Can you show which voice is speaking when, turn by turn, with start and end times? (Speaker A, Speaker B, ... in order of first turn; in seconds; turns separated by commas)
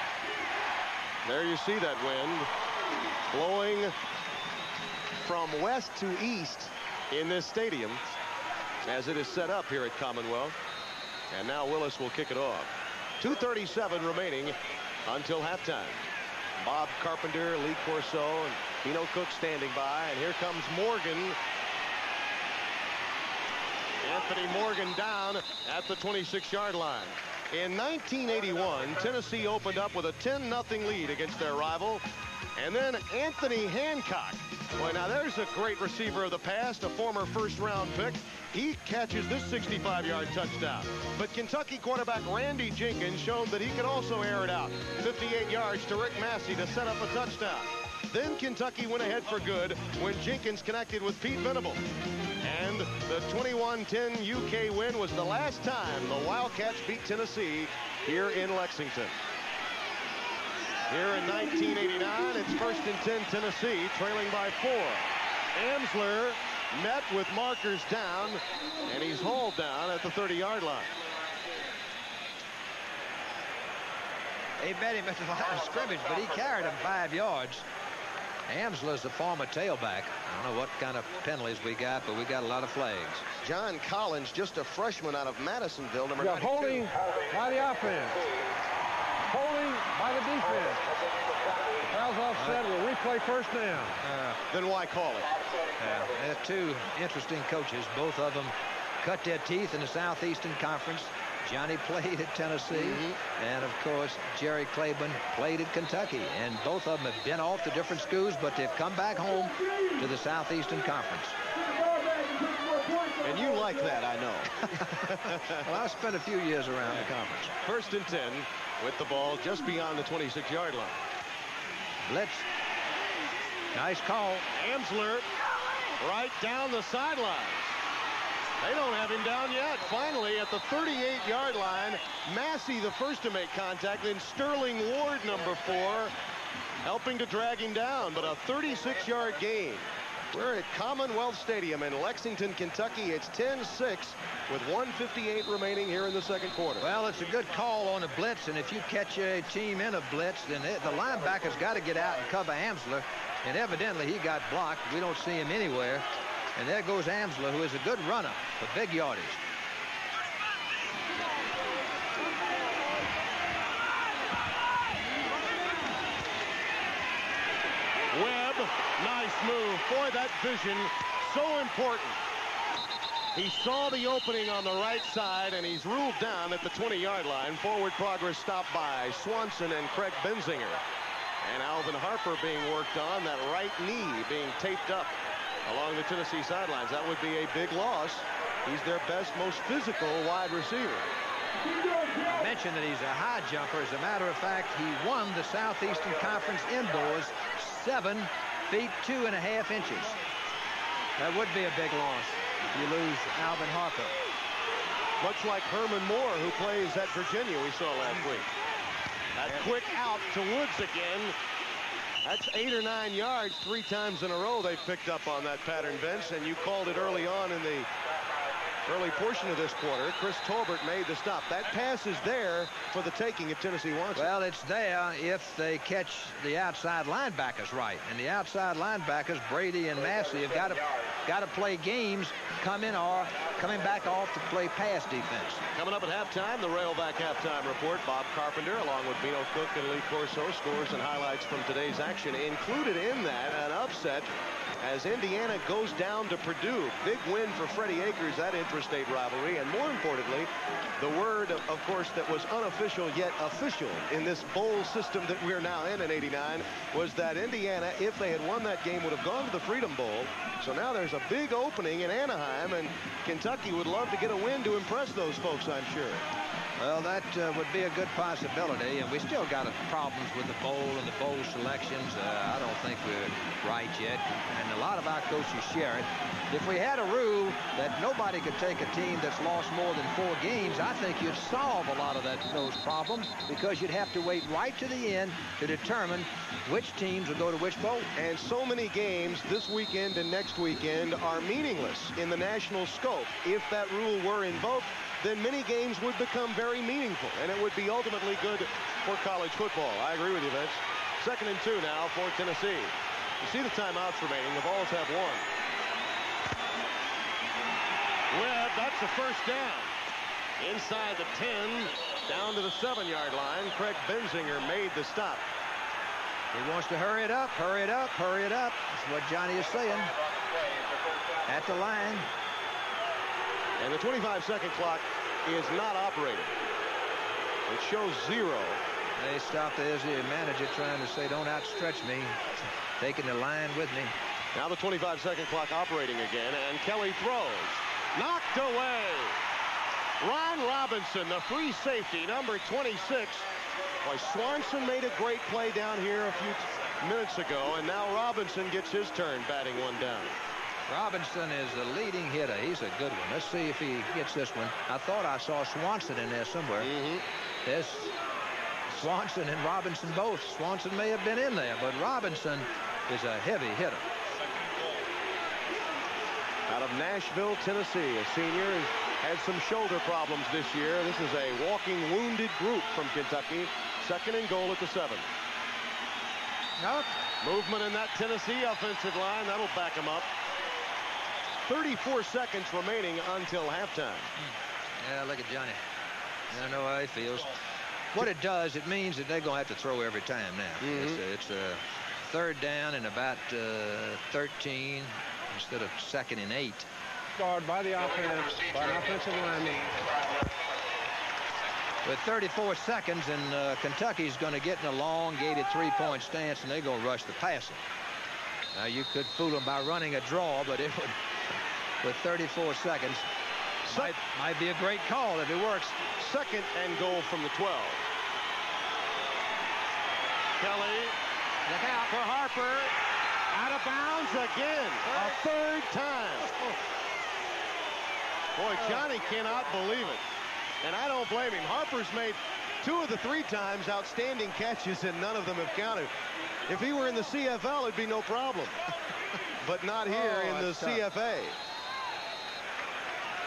Speaker A: 1.2-2.5, Speaker A: 3.3-3.9, Speaker A: 5.2-8.0, Speaker A: 8.8-10.6, Speaker A: 11.3-16.0, Speaker A: 16.6-21.4, Speaker A: 24.0-32.0, Speaker A: 32.5-51.8, Speaker A: 52.4-59.2, Speaker A: 60.9-70.9, Speaker B: 74.6-77.7, Speaker B: 78.5-83.2, Speaker A: 83.4-86.9, Speaker C: 86.2-88.3, Speaker C: 89.3-90.8, Speaker C: 91.8-94.0, Speaker B: 92.3-92.6, Speaker B: 94.0-94.4, Speaker A: 94.5-95.3, Speaker B: 95.8-111.3, Speaker A: 102.7-103.2, Speaker A: 113.2-115.7, Speaker B: 115.6-117.5, Speaker A: 117.6-121.0, Speaker B: 122.0-122.5, Speaker B: 123.7-124.5, Speaker A: 124.5-125.3, Speaker A: 126.0-127.8, Speaker A: 128.6-136.1, Speaker A: 136.8-146.9, Speaker B: 146.8-156.0, Speaker B: 156.6-159.4, Speaker A: 168.1-172.2, Speaker A: 173.3-180.8, Speaker A: 181.4-185.1, Speaker A: 185.7-191.1, Speaker B: 192.2-200.2, Speaker B: 201.2-204.2, Speaker A: 205.2-208.5, Speaker A: 209.3-211.3, Speaker A: 212.2-217.9, Speaker A: 218.8-224.3, Speaker B: 224.1-235.6, Speaker A: 235.7-244.3, Speaker A: 244.8-266.2, Speaker B: 266.8-288.1, Speaker A: 288.1-305.4, Speaker A: 308.3-309.9, Speaker A: 310.6-315.4, Speaker B: 316.5-320.1, Speaker B: 321.5-322.3, Speaker A: 323.8-326.6, Speaker A: 327.7-328.8, Speaker B: 329.2-334.1, Speaker A: 334.5-339.4, Speaker A: 340.2-343.5, Speaker A: 344.0-350.3, Speaker B: 350.9-356.9, Speaker A: 356.8-357.2, Speaker B: 357.6-358.1, Speaker B: 358.9-364.0, Speaker A: 366.7-375.2, Speaker B: 376.8-377.1, Speaker A: 377.4-380.3, Speaker A: 381.6-384.3, Speaker B: 384.4-385.8, Speaker B: 386.5-387.5, Speaker B: 388.1-396.9, Speaker A: 390.8-391.2, Speaker C: 397.4-400.0, Speaker B: 402.0-407.8, Speaker B: 408.7-411.2, Speaker B: 412.0-413.3, Speaker A: 413.8-414.1, Speaker B: 413.9-416.1, Speaker A: 416.1-418.1, Speaker A: 420.6-421.1, Speaker B: 421.7-422.1, Speaker A: 422.1-422.9, Speaker A: 423.5-426.5, Speaker B: 425.1-425.4, Speaker A: 428.6-430.2, Speaker B: 428.8-429.0, Speaker A: 430.8-436.1, Speaker A: 436.7-438.8, Speaker A: 439.6-441.6, Speaker B: 440.1-441.0